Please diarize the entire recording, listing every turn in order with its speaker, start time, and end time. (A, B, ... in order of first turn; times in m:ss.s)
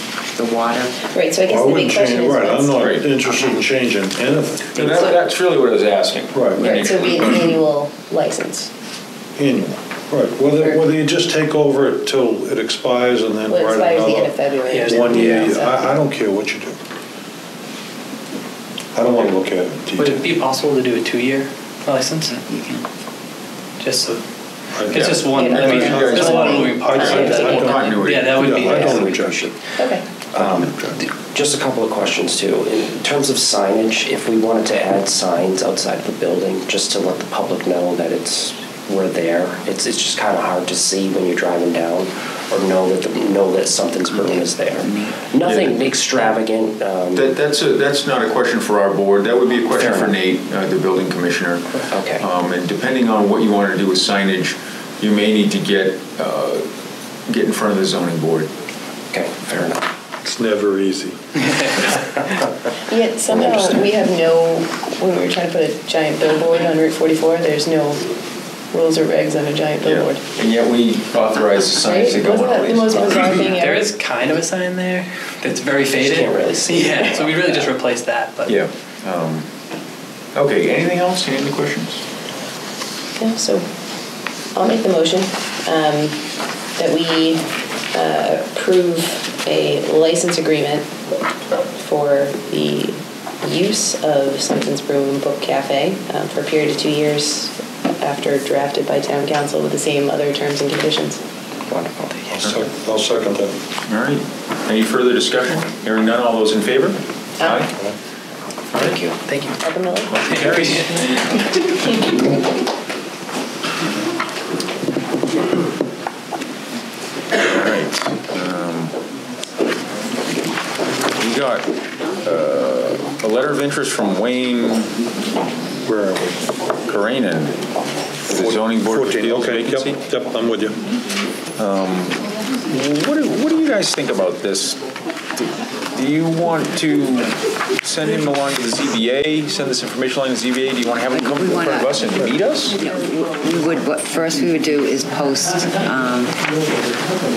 0:00.3-0:01.0 A
0:01.0-0:02.8 B
0:01.5-0:05.0 C
0:02.8-0:03.1 D
0:04.7-0:07.6 D
0:06.3-0:06.6 C
0:06.6-0:08.7 B
0:09.4-0:16.8 C
0:10.6-0:10.8 B
0:13.5-0:15.9 B
0:14.7-0:15.5 E
0:19.0-0:20.2 C
0:20.0-0:22.4 E
0:22.2-0:22.9 A
0:23.8-0:24.2 E
0:24.8-0:29.5 C
0:24.9-0:29.2 E
0:25.3-0:26.6 B
0:25.5-0:28.5 D
0:28.7-0:47.3 F
0:29.8-0:30.0 B
0:30.4-0:31.0 C
0:44.1-0:45.1 A
0:45.4-0:45.8 D
0:47.2-0:56.7 D
0:49.8-0:50.2 F
0:51.8-0:52.3 F
0:57.3-0:58.5 D
0:59.1-0:59.8 F
0:59.5-0:59.8 D
1:00.2-1:01.2 C
1:02.9-1:08.0 B
1:08.7-1:10.2 B
1:09.8-1:13.4 D
1:11.9-1:13.9 B
1:12.9-1:13.4 F
1:13.2-1:18.6 E
1:16.0-1:17.6 F
1:18.5-1:19.5 D
1:20.3-1:22.0 D
1:23.2-1:23.7 B
1:24.6-1:26.2 B
1:26.8-1:30.9 B
1:31.8-1:41.2 B
1:41.7-1:42.4 E
1:42.3-1:43.6 C
1:43.9-1:47.7 D
1:49.1-1:49.6 E
1:49.6-1:50.1 B
1:50.1-1:51.3 D
1:50.2-1:51.4 E
1:57.4-1:59.0 D
2:01.2-2:01.7 D
2:02.2-2:05.0 D
2:05.9-2:06.4 C
2:06.9-2:07.6 D
2:08.3-2:10.0 D
2:08.4-2:10.8 C
2:11.6-2:14.8 D
2:15.4-2:22.8 D
2:21.1-2:22.1 A
2:22.8-2:26.3 A